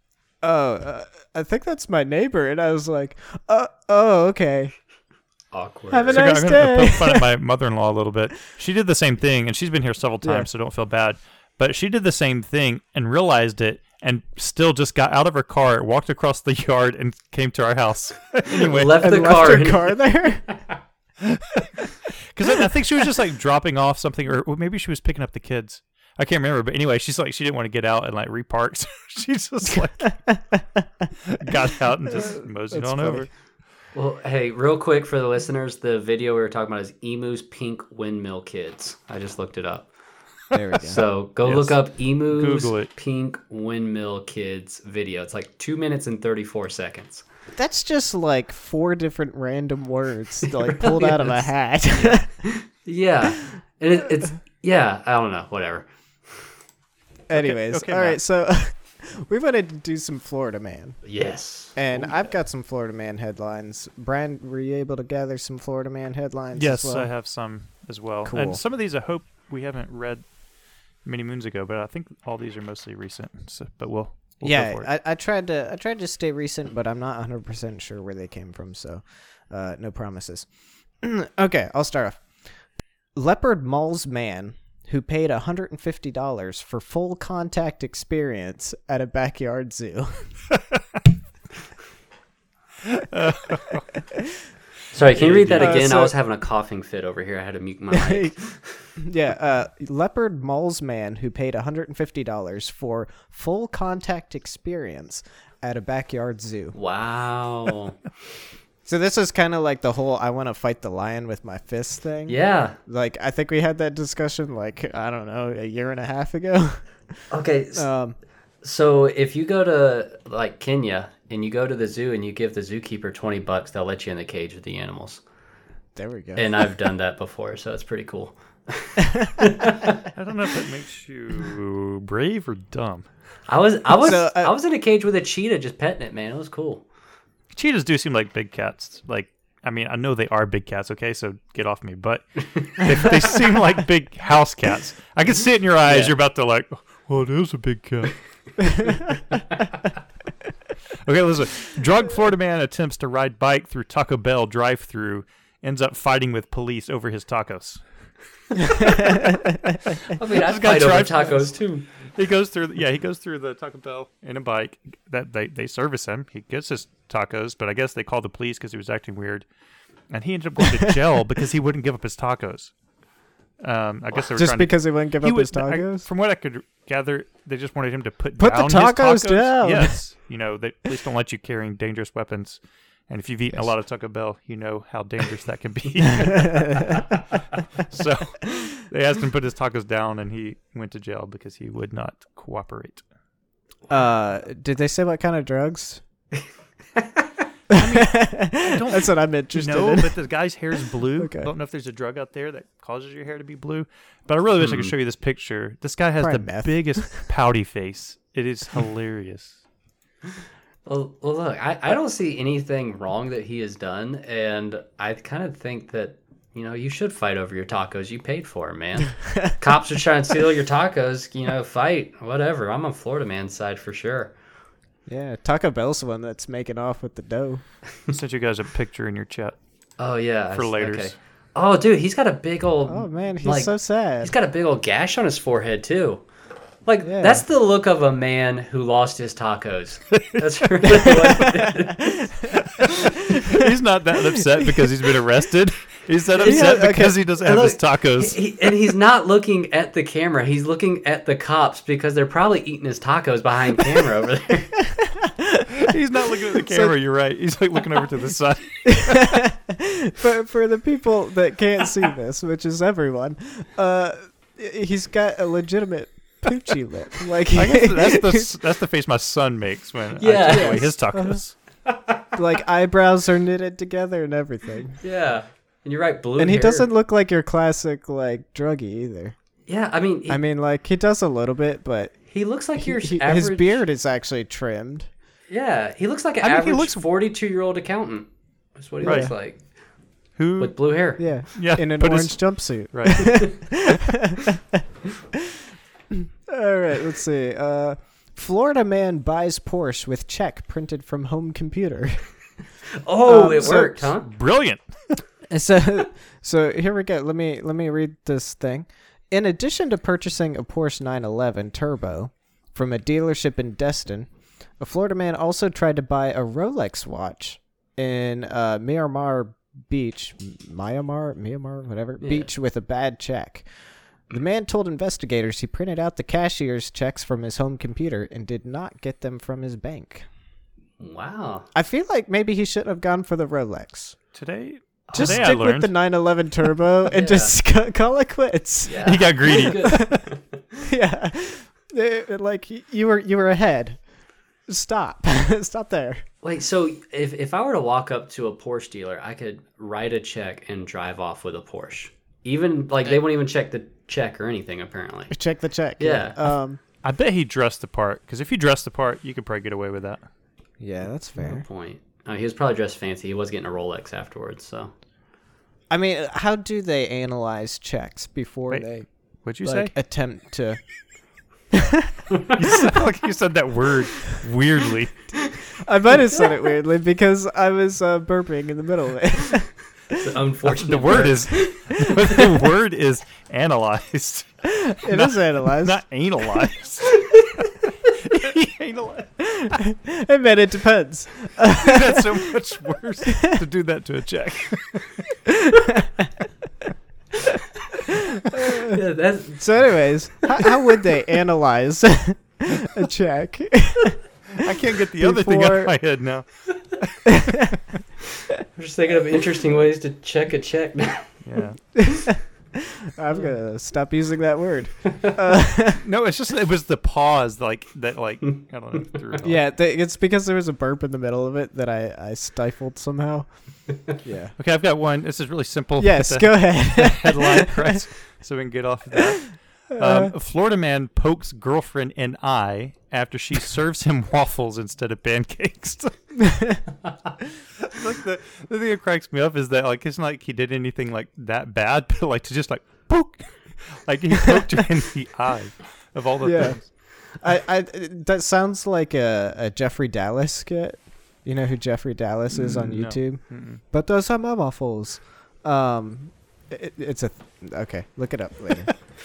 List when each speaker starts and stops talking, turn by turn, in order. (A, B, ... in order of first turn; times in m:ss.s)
0:00.4-0:04.8 A
0:05.5-0:06.3 B
0:05.9-0:07.3 A
0:06.1-0:19.4 C
0:10.2-0:10.5 A
0:18.5-0:20.0 B
0:19.0-0:20.5 A
0:21.2-0:30.3 C
0:29.7-0:31.5 A
0:31.2-0:33.3 C
0:32.1-0:33.3 A
0:33.9-0:39.9 B
0:40.5-0:41.0 A
0:40.8-0:47.2 B
0:41.4-0:42.9 C
0:47.6-0:52.3 A
0:50.7-0:51.4 B
0:52.5-0:55.9 B
0:57.3-1:01.0 A
0:57.4-0:58.2 C
1:01.0-1:01.8 B
1:01.8-1:07.1 A
1:06.6-1:10.2 C
1:08.2-1:08.6 A
1:11.0-1:14.9 C
1:14.4-1:20.5 A
1:21.0-1:22.2 A
1:23.2-1:30.2 A
1:30.5-1:30.8 C
1:32.9-1:33.8 C
1:34.9-1:38.7 B
1:35.1-1:35.8 C
1:35.6-1:36.1 A
1:37.9-1:38.4 A
1:39.0-1:46.8 A
1:46.7-1:48.0 B
1:48.8-1:56.8 A
1:52.3-1:52.8 B
1:57.3-1:57.9 B
1:57.8-1:58.2 A
1:58.6-2:05.2 B
2:06.0-2:06.4 A
2:06.4-2:10.0 B
2:09.1-2:09.5 A
2:10.1-2:13.1 C
2:13.5-2:16.8 B
2:14.0-2:14.5 A
2:17.6-2:28.9 C
2:28.6-2:29.2 A
2:31.0-2:37.8 C
2:38.6-2:41.5 C
2:38.8-2:39.8 A
2:40.1-2:41.9 B
2:42.1-2:49.4 C
2:50.1-2:52.7 C
2:50.6-2:51.0 A
2:53.6-3:07.2 C
2:54.3-2:56.1 A
2:58.4-3:00.0 A
3:06.3-3:07.1 A
3:07.7-3:13.0 C
3:13.9-3:16.0 A
3:17.0-3:17.2 B
3:17.7-3:20.2 A
3:17.7-3:29.6 C
3:21.2-3:21.5 A
3:24.6-3:24.9 B
3:26.2-3:27.2 A
3:30.9-3:44.3 B
3:45.1-3:47.6 A
3:48.1-3:49.6 C
3:50.0-3:56.2 B
3:50.5-3:51.1 C
3:52.9-3:54.3 A
3:56.9-4:02.2 B
3:57.0-3:57.4 A
4:00.1-4:00.4 C
4:01.0-4:02.5 A
4:02.5-4:08.4 C
4:03.2-4:03.7 A
4:04.4-4:05.1 A
4:06.4-4:06.8 B
4:06.4-4:07.2 A
4:07.4-4:14.8 B
4:14.9-4:15.9 A
4:15.8-4:19.4 C
4:16.6-4:16.9 A
4:18.9-4:28.5 A
4:27.5-4:31.5 C
4:30.2-4:30.9 B
4:30.5-4:31.4 A
4:31.9-4:32.3 B
4:32.4-4:35.0 A
4:35.0-4:36.9 B
4:36.4-4:39.4 A
4:39.7-4:40.4 B
4:40.3-4:42.2 A
4:42.3-4:43.8 B
4:42.8-4:45.1 A
4:45.5-4:49.6 B
4:46.4-4:47.1 C
4:49.0-4:49.3 A
4:49.0-4:49.3 C
4:50.4-4:50.9 C
4:50.6-4:51.2 B
4:51.2-4:54.8 A
4:51.5-4:53.8 C
4:53.2-4:53.5 B
4:56.1-5:02.2 A
5:03.0-5:04.3 B
5:03.3-5:04.1 A
5:03.6-5:05.2 C
5:05.5-5:14.3 A
5:14.8-5:23.7 A
5:22.2-5:22.5 B
5:24.3-5:30.3 A
5:31.0-5:31.7 B
5:31.8-5:34.2 A
5:34.3-5:35.9 C
5:35.1-5:35.5 B
5:35.1-5:40.2 A
5:37.1-5:37.6 B
5:38.9-5:40.6 B
5:39.0-5:40.2 C
5:40.8-5:44.0 A
5:44.7-5:46.2 A
5:46.4-5:55.4 B
5:55.3-5:56.8 A
5:56.0-5:56.4 B
5:57.0-6:00.2 C
6:00.8-6:01.6 A
6:01.4-6:04.9 B
6:05.9-6:09.1 A
6:09.4-6:09.9 C
6:09.6-6:10.8 A
6:11.7-6:12.2 A
6:12.5-6:15.3 C
6:15.8-6:20.2 A
6:20.1-6:22.5 B
6:20.6-6:29.6 C
6:24.7-6:26.0 A
6:29.4-6:32.5 A
6:31.6-6:35.3 C
6:35.5-6:36.3 A
6:38.3-6:39.0 A
6:38.8-6:39.9 B
6:39.6-6:44.2 A
6:40.4-6:40.7 B
6:44.5-6:47.3 C
6:45.2-6:45.9 A
6:47.3-6:47.8 A
6:48.8-6:51.4 B
6:51.4-6:52.0 C
6:52.0-6:56.0 A
6:56.0-6:59.6 C
6:59.4-7:03.5 A
7:04.1-7:04.6 A
7:04.6-7:16.1 C
7:06.0-7:08.0 A
7:09.9-7:10.3 A
7:16.4-7:16.8 A
7:17.8-7:26.9 C
7:26.4-7:26.8 A
7:27.4-7:39.0 A
7:32.5-7:33.8 C